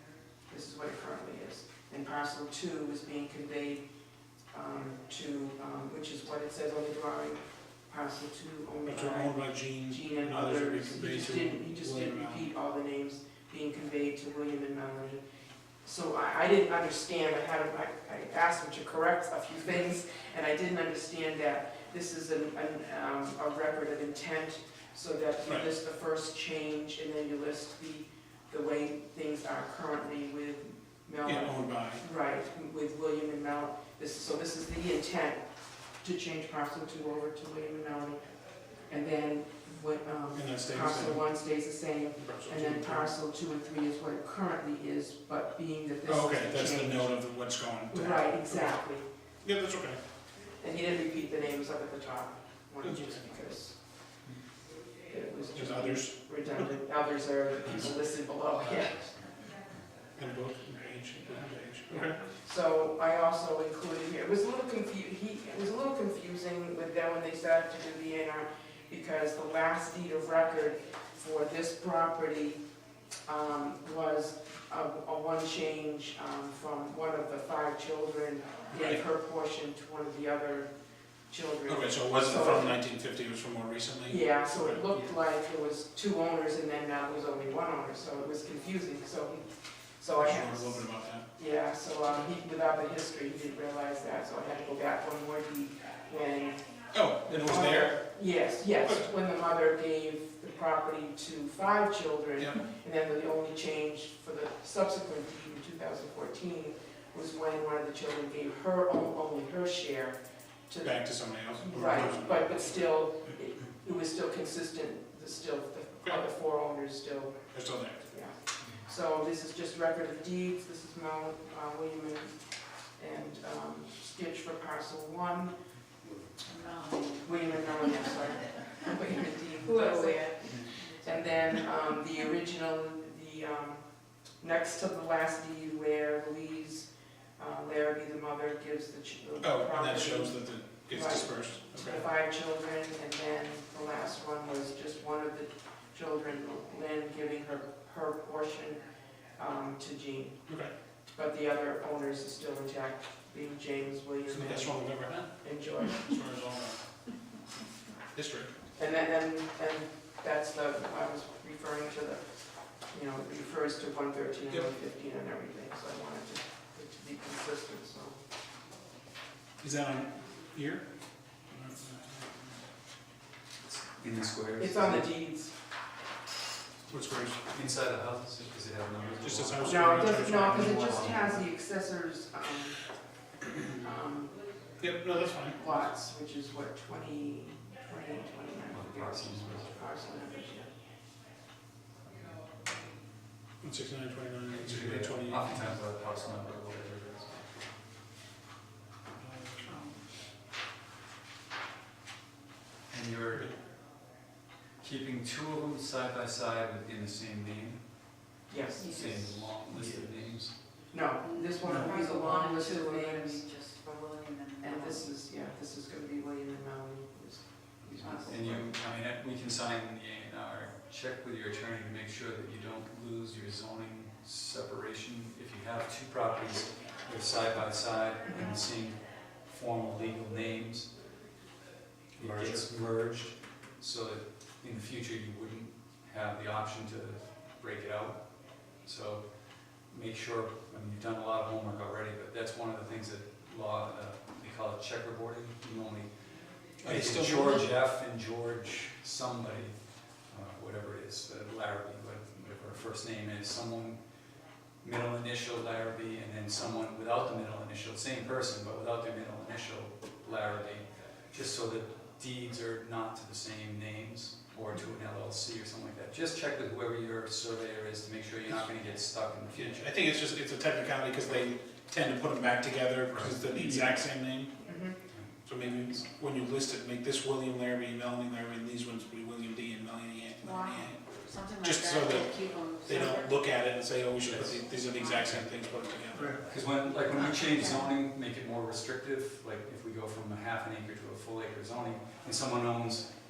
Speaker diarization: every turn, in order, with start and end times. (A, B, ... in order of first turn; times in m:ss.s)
0:00.5-0:03.8 A
0:04.5-0:15.2 A
0:08.9-0:12.5 B
0:15.8-0:35.4 A
0:31.2-0:32.0 B
0:36.0-0:38.2 A
0:38.9-0:47.2 A
0:40.3-0:41.3 B
0:42.2-0:43.1 B
0:46.1-0:48.8 B
0:47.9-0:49.1 A
0:49.4-0:50.0 B
0:50.6-0:53.8 A
0:52.8-0:53.2 B
0:55.1-0:59.0 A
0:55.5-0:56.7 B
0:58.7-0:59.1 C
1:00.2-1:02.2 B
1:01.9-1:12.6 A
1:13.3-1:20.7 A
1:18.7-1:19.0 B
1:21.3-1:22.8 A
1:21.7-1:24.8 B
1:24.1-1:36.6 A
1:30.2-1:31.2 B
1:36.9-1:38.0 B
1:37.3-1:50.2 A
1:38.8-1:39.1 B
1:50.7-1:51.0 A
1:50.8-1:52.8 B
1:51.6-1:57.5 A
1:57.5-1:58.0 B
1:58.0-2:02.3 A
2:03.0-2:05.6 A
2:06.4-2:08.1 D
2:07.2-2:13.9 A
2:09.6-2:11.6 D
2:10.4-2:10.7 C
2:14.4-2:16.9 A
2:17.4-2:28.8 A
2:19.4-2:22.0 B
2:29.4-2:30.6 A
2:31.1-2:36.1 A
2:34.3-2:36.9 B
2:38.1-2:38.5 B
2:38.8-2:42.2 A
2:42.9-2:48.2 A
2:49.6-2:50.8 B
2:51.5-2:52.4 B
2:53.6-2:55.1 C
2:54.6-2:55.5 A
2:56.9-2:57.4 B
2:57.5-3:01.4 C
2:59.2-3:01.2 B
2:59.6-3:02.8 A
3:03.7-3:04.4 A
3:04.8-3:05.6 B
3:05.3-3:10.7 A
3:08.7-3:09.7 C
3:13.6-3:15.8 B
3:14.5-3:17.6 C
3:22.9-3:23.6 C
3:24.8-3:27.8 C
3:28.3-3:30.6 C
3:28.5-3:29.2 A
3:28.8-3:29.5 D
3:30.9-3:33.4 A
3:31.2-3:35.0 D
3:34.6-3:38.7 A
3:38.0-3:38.4 D
3:38.2-3:50.9 C
3:52.2-3:58.2 C
3:52.2-3:52.7 B
3:58.8-4:06.1 C
4:06.8-4:09.8 C
4:06.8-4:07.7 B
4:10.3-4:14.0 C
4:14.8-4:29.9 C
4:29.5-4:34.5 B
4:33.1-4:34.0 C
4:34.6-4:35.0 A
4:35.4-4:46.4 B
4:40.4-4:43.4 D
4:44.3-4:44.7 C
4:46.5-4:53.1 C
4:47.1-4:47.8 D